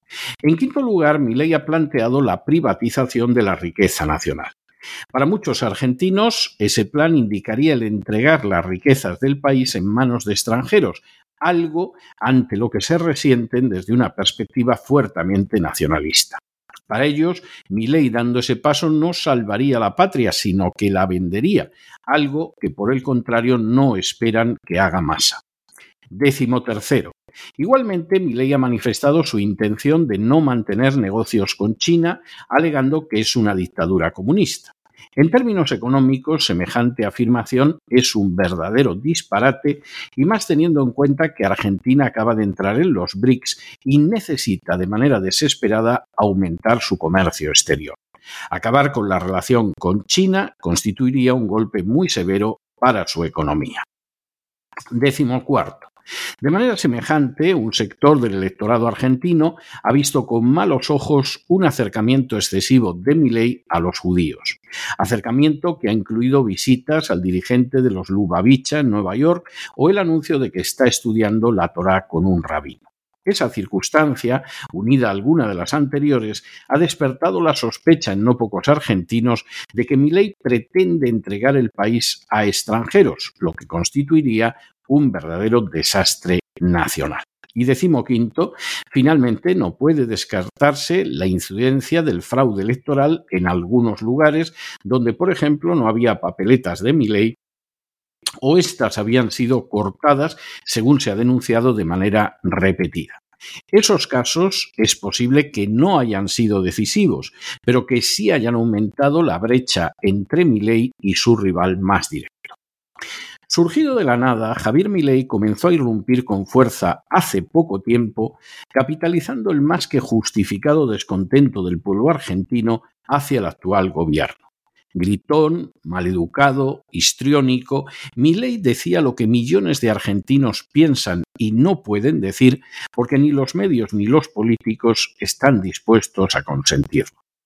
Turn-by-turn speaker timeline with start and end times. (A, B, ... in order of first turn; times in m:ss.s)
0:00.4-0:04.6 A
0:05.1-0:25.4 A
0:26.1-0:48.0 A
0:48.5-0:53.8 A
0:54.9-0:55.9 A
0:56.4-1:37.4 A
1:38.4-1:43.2 A
1:43.7-1:52.6 A
1:53.5-2:04.4 A
2:04.9-2:17.2 A